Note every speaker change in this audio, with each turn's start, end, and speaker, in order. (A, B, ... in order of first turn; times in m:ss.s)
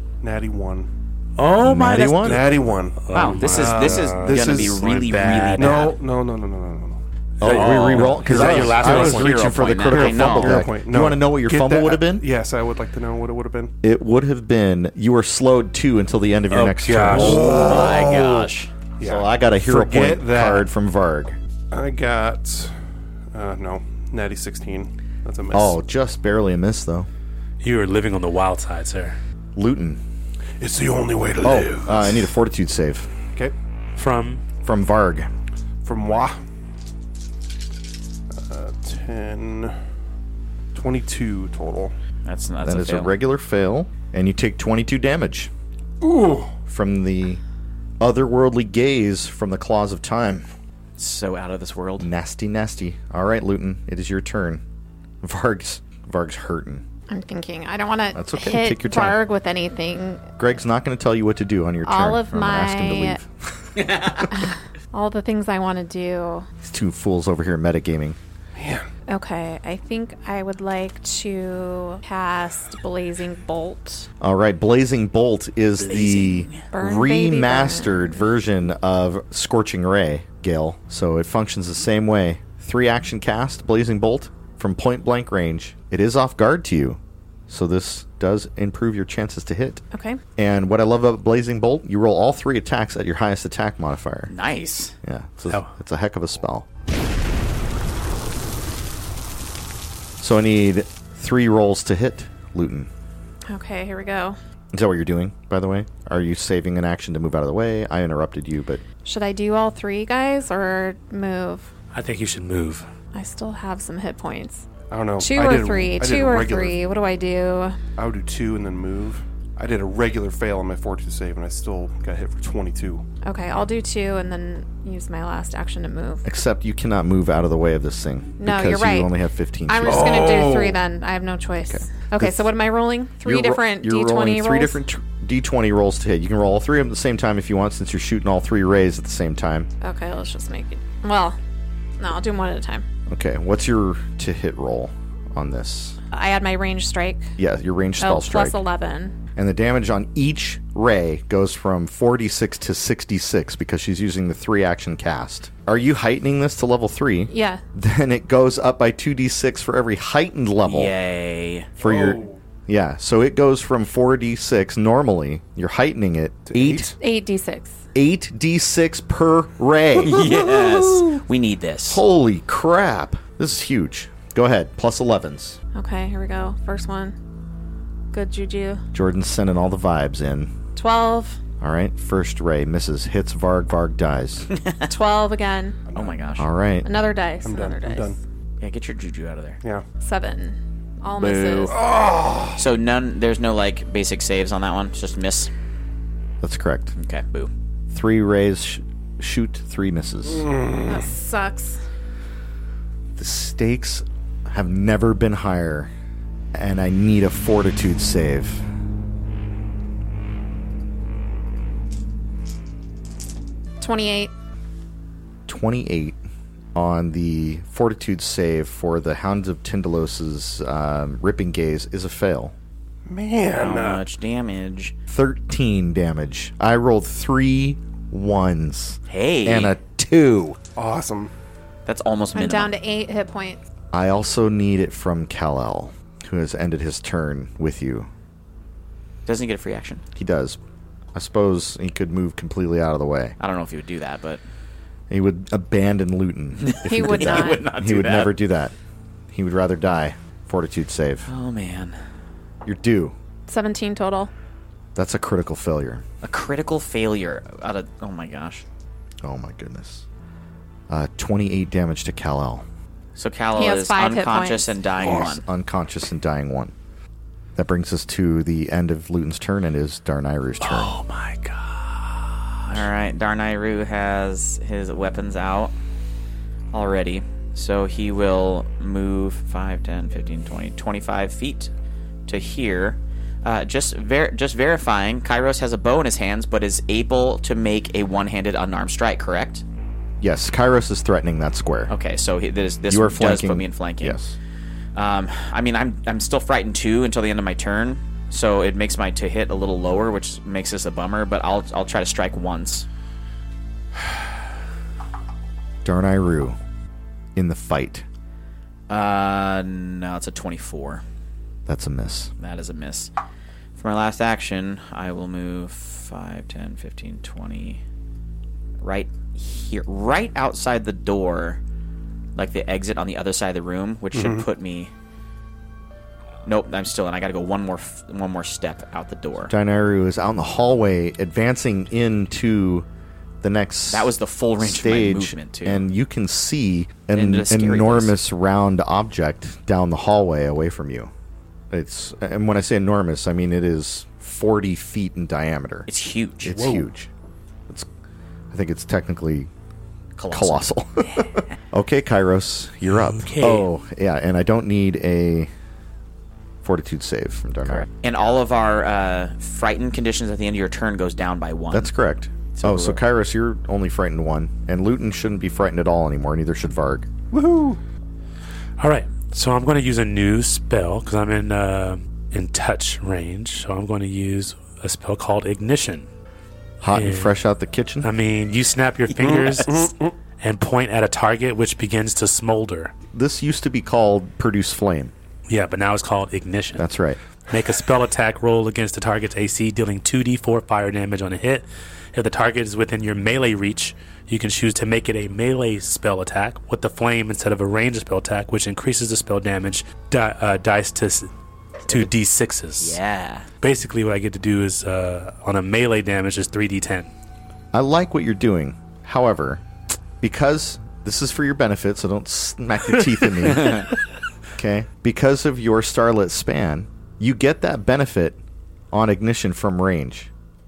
0:00.2-0:00.9 A
0:01.4-0:05.9 B
0:01.6-0:02.6 C
0:02.2-0:04.9 A
0:03.1-0:05.9 D
0:05.6-0:13.7 A
0:07.4-0:09.3 B
0:07.4-0:12.2 C
0:07.5-0:10.7 D
0:13.8-0:17.6 C
0:16.5-0:17.5 B
0:17.1-0:20.7 A
0:17.3-0:18.7 D
0:19.0-0:21.4 C
0:21.7-0:22.7 A
0:23.3-0:25.8 A
0:25.5-0:27.1 C
0:27.6-0:29.2 B
0:29.6-0:30.0 C
0:30.6-0:32.3 A
0:31.4-0:33.1 C
0:34.0-0:34.4 B
0:34.6-0:35.3 C
0:35.8-0:36.4 A
0:38.3-0:39.8 A
0:40.7-0:41.9 A
0:42.2-0:43.1 D
0:42.6-0:45.5 C
0:46.0-0:46.5 A
0:46.7-0:47.4 C
0:48.0-0:50.5 C
0:51.0-0:52.1 D
0:52.0-0:54.6 C
0:55.2-0:56.8 C
0:57.1-1:00.2 E
0:58.1-0:59.2 C
1:00.4-1:04.1 C
1:01.8-1:03.2 E
1:04.3-1:06.4 E
1:06.6-1:08.2 C
1:08.5-1:08.8 A
1:09.1-1:14.1 E
1:14.2-1:29.8 C
1:15.8-1:16.6 D
1:16.7-1:18.2 E
1:29.9-1:30.2 E
1:30.4-1:34.3 C
1:34.3-1:34.9 D
1:35.0-1:36.6 C
1:40.2-1:42.9 C
1:43.5-1:44.4 E
1:44.7-1:48.8 C
1:49.0-1:51.7 E
1:51.9-1:52.8 B
1:53.1-1:54.7 E
1:54.9-1:56.8 A
1:55.2-1:57.8 E
1:58.0-2:03.0 A
2:03.2-2:06.2 E
2:06.2-2:10.4 C
2:08.4-2:09.1 E
2:09.7-2:14.8 E
2:09.8-2:10.8 A
2:11.6-2:12.5 C
2:13.2-2:19.7 C
2:19.8-2:21.4 E
2:22.0-2:22.8 E
2:23.1-2:26.0 C
2:26.1-2:27.3 E
2:27.4-2:28.6 C
2:28.0-2:29.1 E
2:29.4-2:40.9 C
2:37.3-2:37.6 E
2:40.6-2:41.7 D
2:41.8-2:46.9 C
2:41.8-2:42.4 A
2:46.4-2:46.9 A
2:47.0-2:47.8 E
2:47.9-2:50.6 C
2:50.0-2:52.0 D
2:51.9-2:55.6 C
2:55.7-2:57.2 E
2:58.1-2:58.8 E
2:58.9-3:00.5 C
3:00.8-3:01.4 E
3:01.6-3:04.5 C
3:04.5-3:04.9 D
3:04.8-3:05.8 E
3:05.9-3:06.2 A
3:05.9-3:06.5 D
3:06.4-3:06.9 C
3:06.8-3:08.2 E
3:07.4-3:08.2 A
3:08.6-3:09.6 D
3:10.0-3:11.8 E
3:11.2-3:11.6 D
3:11.4-3:12.6 A
3:12.6-3:15.5 D
3:16.4-3:16.9 C
3:16.9-3:17.5 D
3:17.9-3:20.5 C
3:20.3-3:21.1 A
3:20.8-3:21.8 E
3:23.2-3:25.9 C
3:26.5-3:28.6 C
3:33.8-3:34.3 E
3:35.5-3:36.2 C
3:36.7-3:42.5 C
3:43.1-3:44.0 A
3:43.5-3:44.9 D
3:45.1-3:50.6 C
3:49.1-3:49.7 D
3:50.8-3:51.3 A
3:51.8-3:52.7 D
3:52.3-3:53.6 E
3:53.9-3:58.1 C
3:59.2-4:00.0 D
4:00.1-4:00.6 C
4:01.1-4:03.3 C
4:03.4-4:04.4 D
4:05.1-4:08.7 C
4:06.6-4:08.4 D
4:06.8-4:07.6 E
4:09.3-4:11.3 C
4:11.3-4:12.0 D
4:12.6-4:13.1 C
4:13.5-4:14.3 E
4:14.9-4:16.0 C
4:16.2-4:18.6 D
4:19.2-4:20.0 C
4:20.9-4:22.6 C
4:23.2-4:25.4 D
4:23.6-4:24.7 E
4:25.0-4:26.7 C
4:25.0-4:25.3 A
4:27.6-4:30.9 C
4:30.6-4:32.8 B
4:32.7-4:35.7 D
4:36.7-4:41.7 D
4:42.3-4:49.6 D
4:50.2-4:51.9 C
4:51.9-4:54.2 D
4:52.9-4:54.3 C
4:54.9-5:02.8 D
5:05.8-5:06.6 C
5:07.4-5:08.0 C
5:08.9-5:11.0 D
5:11.7-5:12.3 C
5:12.4-5:13.1 D
5:13.8-5:17.8 D
5:18.8-5:21.6 D
5:22.4-5:24.9 D
5:24.1-5:24.4 A
5:26.4-5:29.5 D
5:29.5-5:32.8 C
5:33.4-5:41.1 C
5:33.9-5:35.9 D
5:37.1-5:38.1 D
5:41.7-5:45.9 C
5:45.9-5:46.7 D
5:46.4-5:47.1 C
5:48.5-5:49.5 C
5:50.2-5:51.3 D
5:50.3-5:55.5 C
5:53.1-5:53.7 B
5:56.6-5:57.9 C
5:57.6-6:01.9 D
6:01.7-6:07.1 C
6:02.5-6:03.0 D
6:07.3-6:07.8 A
6:08.8-6:16.1 B
6:16.8-6:18.1 C
6:16.9-6:17.3 B
6:18.0-6:22.9 B
6:19.2-6:20.2 A
6:19.2-6:19.6 D
6:23.1-6:25.1 C
6:25.5-6:26.8 B
6:26.8-6:27.2 C
6:27.5-6:41.3 B
6:41.9-6:43.0 B
6:42.8-6:43.5 D
6:43.6-6:47.1 B
6:47.7-6:49.6 C
6:50.2-6:53.9 C
6:54.6-6:58.4 C
6:58.9-7:00.3 C